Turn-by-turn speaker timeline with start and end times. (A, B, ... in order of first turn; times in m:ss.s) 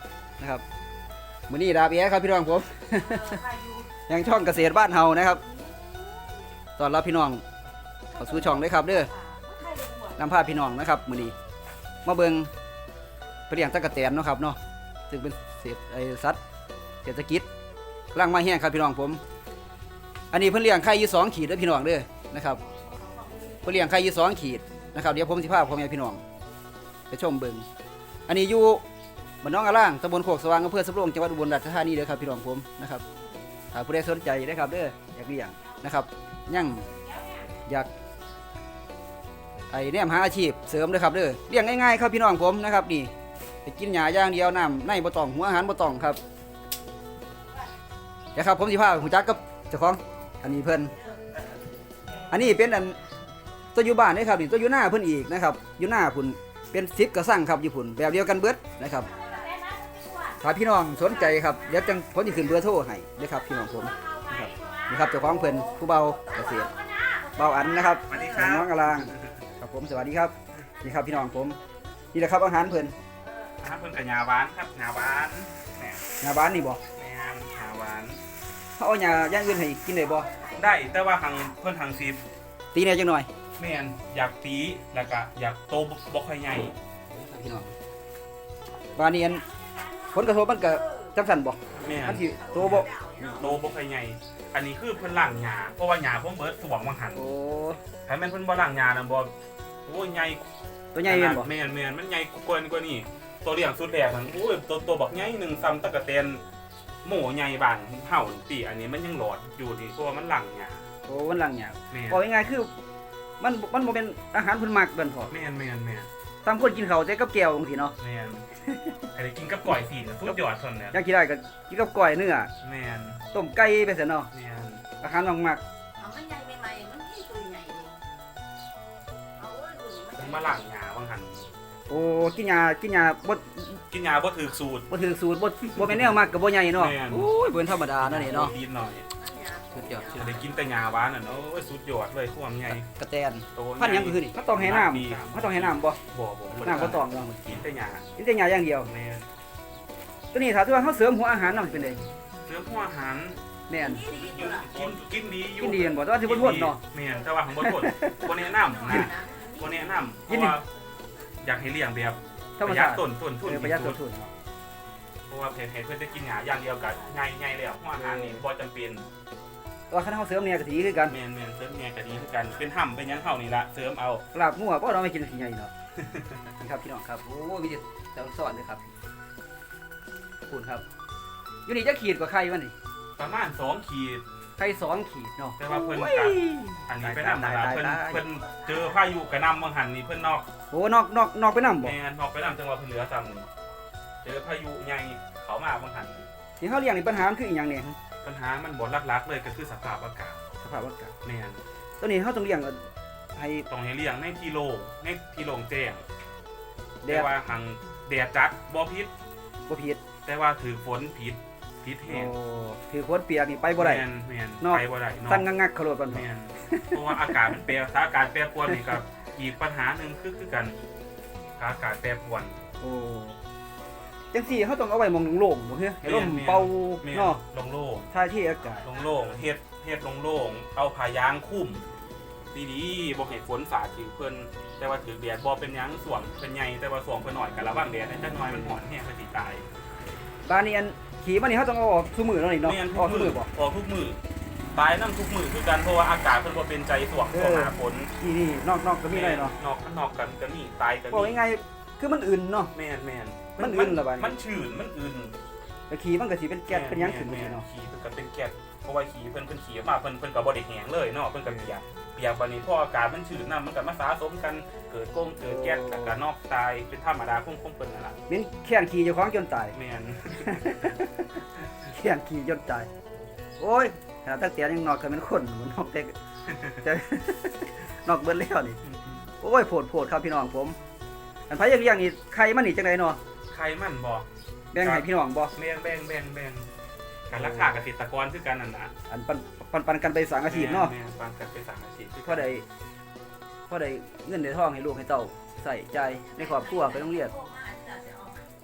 0:01.5-0:03.5 A
0:03.2-0:03.9 B
0:04.1-0:05.4 A
0:05.5-0:06.4 B
0:06.8-0:07.4 A
0:08.1-0:09.1 A
0:08.2-0:10.2 B
0:10.2-0:11.3 A
0:12.0-0:12.5 A
0:13.5-0:14.6 A
0:15.1-0:16.4 A
0:17.0-0:17.4 A
0:18.1-0:19.2 A
0:20.3-0:22.6 A
0:22.7-0:23.8 B
0:23.6-0:26.2 A
0:27.1-0:27.6 A
0:28.3-0:28.8 A
0:29.4-0:33.0 A
0:33.7-0:36.9 A
0:37.0-0:37.4 B
0:39.7-0:43.1 A
0:43.6-0:46.2 A
0:48.3-0:50.9 A
0:52.3-0:53.0 A
0:53.7-0:59.1 A
0:59.0-1:00.4 B
1:00.4-1:06.7 A
1:01.0-1:02.5 B
1:03.5-1:08.1 B
1:07.4-1:11.6 A
1:08.0-1:09.4 C
1:10.7-1:12.1 B
1:12.1-1:12.9 A
1:13.2-1:13.5 B
1:13.6-1:16.1 C
1:16.2-1:16.8 A
1:16.9-1:18.2 C
1:18.8-1:20.3 A
1:20.2-1:20.8 B
1:20.4-1:22.2 C
1:22.7-1:23.3 A
1:23.6-1:26.7 C
1:27.1-1:27.7 A
1:28.9-1:29.4 A
1:29.4-1:31.1 B
1:30.1-1:33.6 A
1:31.7-1:37.2 C
1:32.3-1:33.6 B
1:37.1-1:37.8 A
1:38.0-1:39.3 C
1:39.8-1:40.4 C
1:40.9-1:41.5 A
1:41.0-1:46.4 C
1:47.0-1:50.8 C
1:51.0-1:52.7 A
1:51.9-1:52.2 C
1:53.4-1:55.3 A
1:55.3-1:56.1 C
1:56.4-1:57.9 A
1:58.0-1:58.5 C
1:58.7-1:59.0 A
1:59.1-2:01.0 C
2:00.9-2:02.5 A
2:02.6-2:03.2 C
2:03.3-2:04.3 A
2:04.3-2:04.8 C
2:05.0-2:05.6 A
2:06.0-2:08.0 B
2:09.4-2:10.6 B
2:10.1-2:11.5 C
2:11.9-2:13.8 A
2:13.9-2:14.9 C
2:14.9-2:18.5 A
2:15.6-2:16.2 C
2:16.7-2:19.1 C
2:19.2-2:20.2 B
2:19.7-2:20.4 A
2:20.1-2:22.9 C
2:22.7-2:26.0 A
2:23.5-2:28.1 C
2:26.5-2:27.6 A
2:28.2-2:28.9 A
2:28.8-2:29.3 C
2:30.3-2:32.0 A
2:31.4-2:33.4 C
2:33.7-2:34.1 A
2:33.8-2:34.7 B
2:34.0-2:40.7 C
2:35.6-2:36.8 A
2:37.6-2:38.3 A
2:38.6-2:39.8 B
2:38.9-2:39.1 A
2:40.2-2:40.6 A
2:41.4-2:44.0 C
2:42.6-2:44.3 A
2:45.3-2:49.1 C
2:47.9-2:48.4 A
2:49.9-2:51.2 A
2:51.1-2:54.2 C
2:54.3-2:55.7 A
2:56.0-2:56.5 C
2:56.6-2:58.9 A
3:00.5-3:00.8 A
3:01.6-3:02.7 A
3:03.2-3:04.2 C
3:04.6-3:08.2 A
3:05.6-3:10.5 C
3:08.5-3:09.2 B
3:10.7-3:12.0 A
3:11.8-3:13.5 C
3:14.2-3:16.3 C
3:16.6-3:18.0 A
3:18.2-3:20.4 C
3:20.6-3:21.1 A
3:21.2-3:21.6 C
3:22.0-3:22.8 A
3:23.3-3:23.6 A
3:23.6-3:26.0 C
3:27.0-3:27.3 A
3:27.1-3:29.1 C
3:29.7-3:30.0 A
3:30.2-3:32.3 C
3:32.1-3:34.0 A
3:33.8-3:35.5 C
3:34.6-3:37.6 A
3:36.1-3:40.8 C
3:38.7-3:39.0 A
3:41.6-3:42.6 C
3:42.8-3:43.4 A
3:44.3-3:47.4 A
3:46.0-3:48.1 C
3:48.1-3:48.9 A
3:48.8-3:51.8 C
3:52.5-3:59.6 C
4:00.4-4:03.5 A
4:02.6-4:04.2 C
4:04.7-4:08.1 C
4:07.3-4:09.6 A
4:09.1-4:11.4 C
4:11.1-4:12.7 A
4:12.7-4:15.4 C
4:13.6-4:14.3 A
4:15.9-4:17.6 A
4:16.7-4:28.2 C
4:21.4-4:21.7 A
4:25.4-4:26.2 A
4:28.3-4:29.8 A
4:29.7-4:31.9 C
4:30.4-4:31.2 A
4:31.9-4:32.9 A
4:33.6-4:36.1 A
4:36.4-4:36.8 C
4:36.8-4:38.8 A
4:38.8-4:39.2 C
4:39.4-4:40.8 A
4:41.5-4:43.2 A
4:43.5-4:44.3 C
4:44.7-4:45.5 A
4:44.8-4:46.7 C
4:47.3-4:48.9 C
4:47.3-4:47.8 A
4:49.1-4:50.9 A
4:50.5-4:52.5 C
4:52.2-4:52.6 A
4:53.7-4:57.3 A
4:56.2-4:58.5 B